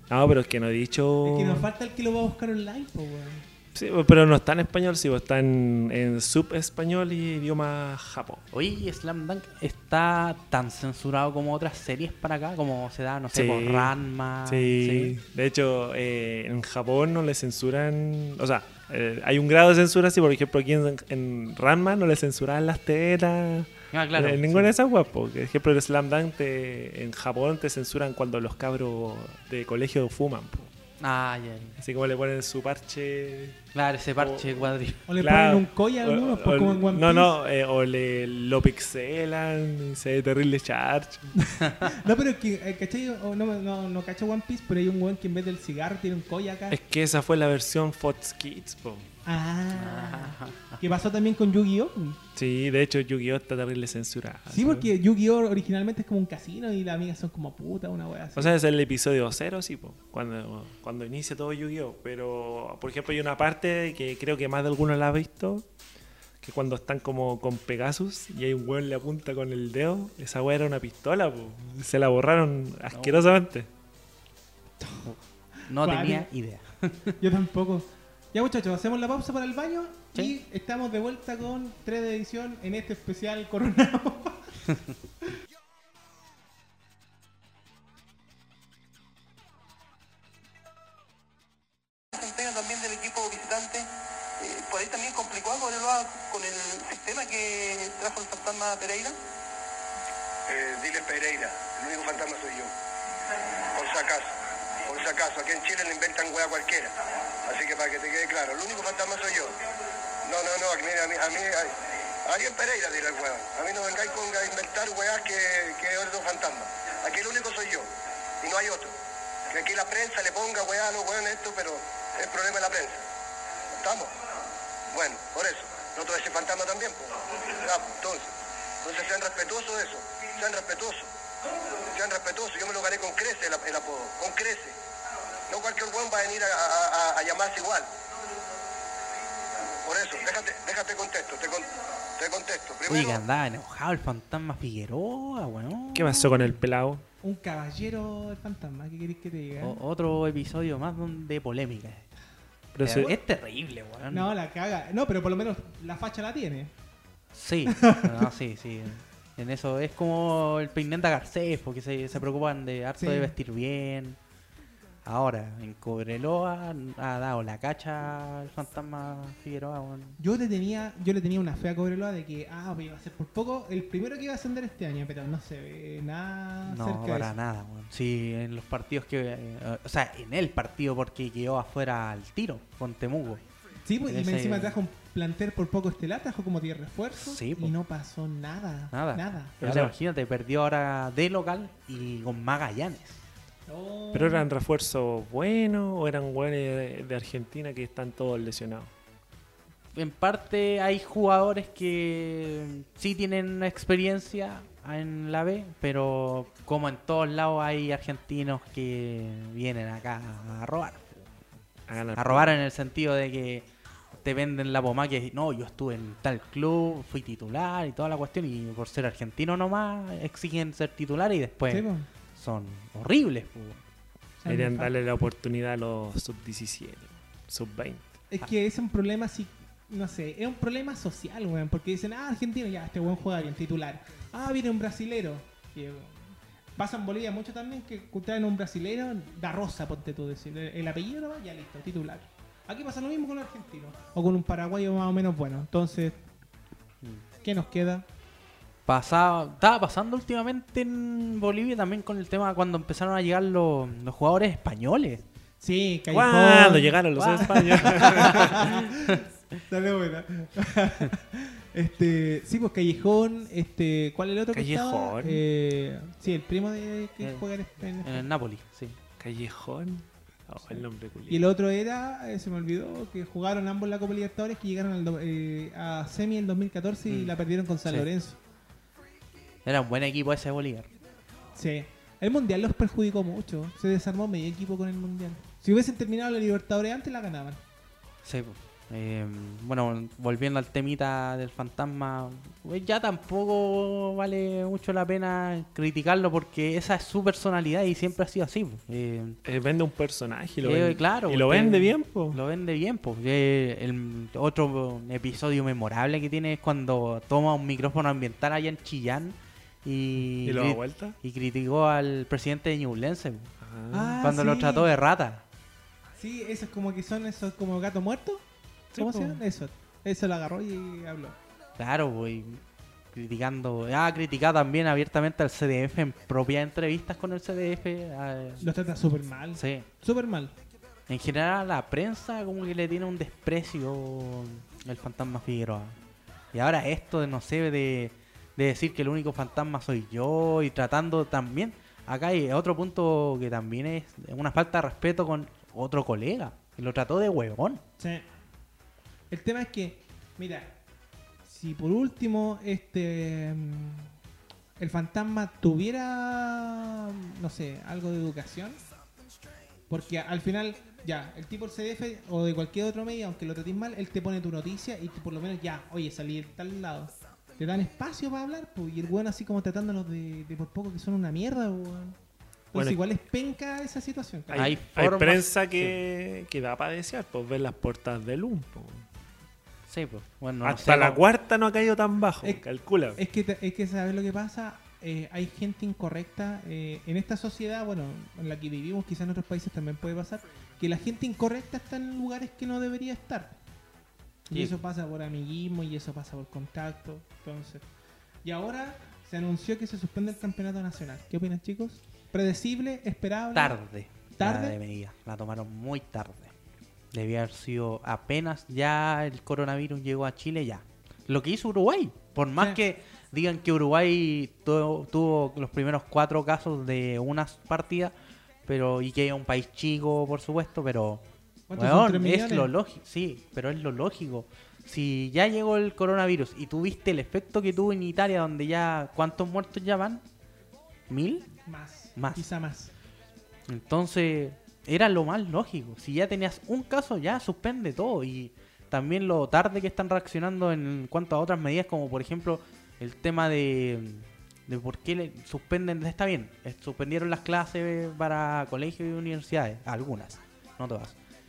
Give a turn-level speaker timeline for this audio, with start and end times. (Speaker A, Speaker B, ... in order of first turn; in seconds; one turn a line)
Speaker A: 0.1-1.7
Speaker B: 1.2-3.4
Speaker A: 3.7-8.4
Speaker C: 8.5-15.2
Speaker A: 13.3-13.9
Speaker A: 14.5-30.7
Speaker C: 23.9-24.7
Speaker C: 31.0-31.8
Speaker A: 31.8-33.6
Speaker C: 33.7-35.0
Speaker A: 34.2-41.4
Speaker B: 35.1-37.4
Speaker B: 41.5-46.8
Speaker A: 46.7-49.1
Speaker B: 49.2-52.2
Speaker C: 49.8-50.8
Speaker A: 52.4-54.9
Speaker B: 54.5-58.5
Speaker A: 58.4-65.7
Speaker A: 66.4-73.7
Speaker C: 72.9-73.3
Speaker B: 74.8-75.1
Speaker C: 75.0-77.2
Speaker B: 75.7-76.3
Speaker B: 77.2-84.5
Speaker D: 92.1-99.2
Speaker E: 100.5-102.7
Speaker E: 103.7-109.6
Speaker E: 110.2-117.9
Speaker E: 118.4-118.9
Speaker E: 119.5-123.0
Speaker E: 123.8-124.2
Speaker E: 124.9-131.1
Speaker E: 131.8-134.8
Speaker E: 135.5-137.9
Speaker E: 139.7-143.2
Speaker C: 142.9-146.3
Speaker A: 145.9-147.0
Speaker B: 147.2-149.8
Speaker C: 149.6-152.1
Speaker A: 152.7-153.1
Speaker C: 152.8-154.3
Speaker B: 152.8-153.2
Speaker B: 154.1-156.7
Speaker C: 157.3-164.2
Speaker B: 157.7-158.3
Speaker B: 163.0-163.3
Speaker C: 165.1-170.2
Speaker B: 170.2-177.3
Speaker C: 176.7-183.4
Speaker B: 183.8-189.6
Speaker C: 184.1-184.7
Speaker C: 187.2-187.7
Speaker C: 188.9-193.2
Speaker A: 189.6-189.9
Speaker B: 193.7-194.4
Speaker A: 194.1-198.9
Speaker C: 199.9-211.3
Speaker A: 211.9-212.5
Speaker C: 212.2-213.7
Speaker C: 214.2-223.8
Speaker B: 221.7-222.1
Speaker B: 224.4-224.9
Speaker A: 224.4-228.0
Speaker B: 228.3-246.2
Speaker B: 247.4-248.1
Speaker C: 248.9-255.2
Speaker B: 255.6-256.9
Speaker A: 256.1-258.7
Speaker C: 257.2-259.3
Speaker B: 257.5-268.3
Speaker A: 264.5-265.4
Speaker C: 268.0-269.0
Speaker A: 269.2-271.5
Speaker B: 271.3-278.4
Speaker C: 277.1-277.4
Speaker C: 279.6-280.9
Speaker B: 281.5-287.6
Speaker C: 288.2-299.4
Speaker A: 299.4-302.4
Speaker C: 300.6-313.5
Speaker A: 310.4-311.2
Speaker A: 313.6-314.2
Speaker B: 313.9-314.9
Speaker C: 314.2-315.4
Speaker B: 316.2-318.4
Speaker A: 318.9-319.4
Speaker B: 318.9-321.4
Speaker C: 321.8-322.6
Speaker C: 323.1-328.7
Speaker B: 328.6-330.6
Speaker C: 329.6-329.9
Speaker C: 331.1-335.9
Speaker C: 336.5-347.8
Speaker B: 348.0-348.3
Speaker B: 349.3-350.8
Speaker B: 351.4-354.1
Speaker B: 354.8-358.8
Speaker B: 359.9-372.2
Speaker A: 372.7-373.0
Speaker B: 372.7-374.7
Speaker A: 374.5-379.1
Speaker C: 374.5-376.0
Speaker C: 379.9-381.2
Speaker A: 380.6-383.2
Speaker B: 383.2-393.6
Speaker B: 394.5-397.9
Speaker B: 398.4-403.8
Speaker C: 403.5-406.6
Speaker B: 404.4-404.8
Speaker C: 407.1-418.1
Speaker C: 418.7-421.2
Speaker B: 421.7-422.7
Speaker C: 421.8-430.2
Speaker C: 431.1-431.5
Speaker B: 431.7-432.9
Speaker C: 432.1-432.5
Speaker C: 433.7-451.2